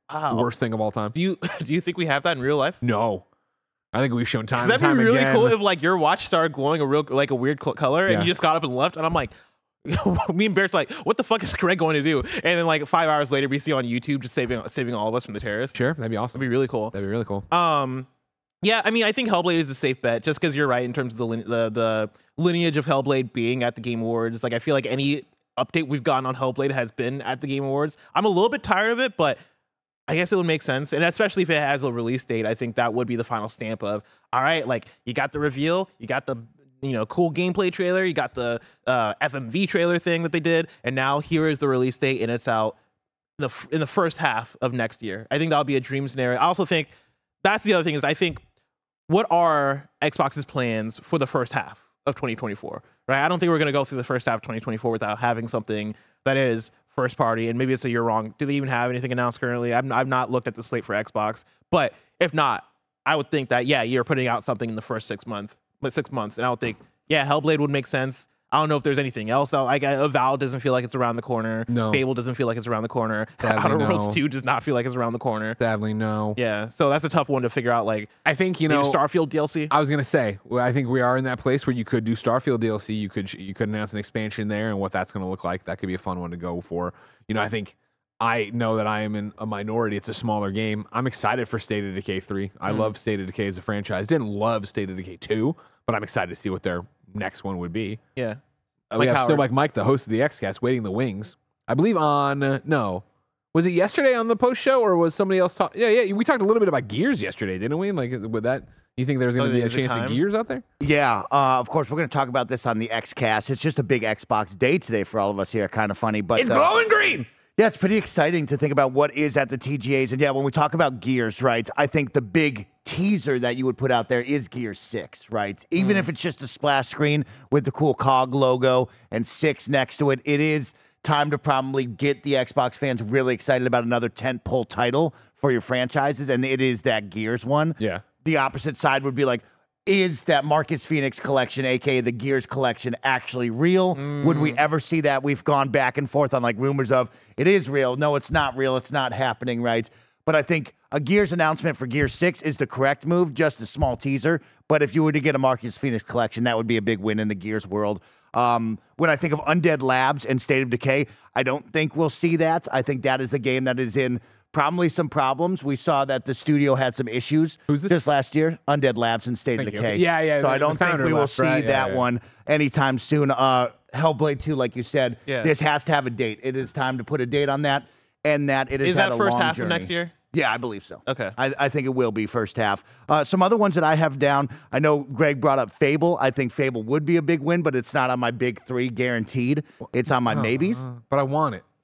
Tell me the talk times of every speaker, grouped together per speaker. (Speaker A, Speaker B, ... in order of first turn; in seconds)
Speaker A: 0.1-0.5, 1.1-2.8, 4.6-9.3, 9.9-15.8, 16.3-16.9, 17.5-18.1, 18.6-29.4, 30.1-42.8, 43.4-46.9, 47.4-48.4, 49.1-75.6, 76.4-78.1, 78.7-79.7, 92.7-92.9, 98.9-99.5, 109.4-110.2, 125.8-126.1, 143.9-144.6, 175.3-175.5, 178.8-180.1, 181.1-181.4
Speaker B: 0.3-1.1, 2.8-3.2, 3.9-5.6, 8.1-8.3, 15.8-17.5, 71.7-72.0, 73.4-74.2, 75.6-76.4, 78.3-79.0, 79.7-98.0, 99.0-110.6, 116.4-117.3, 137.8-138.0, 167.7-167.9, 169.6-172.1, 190.3-191.6
Speaker C: 110.8-116.7, 117.6-190.8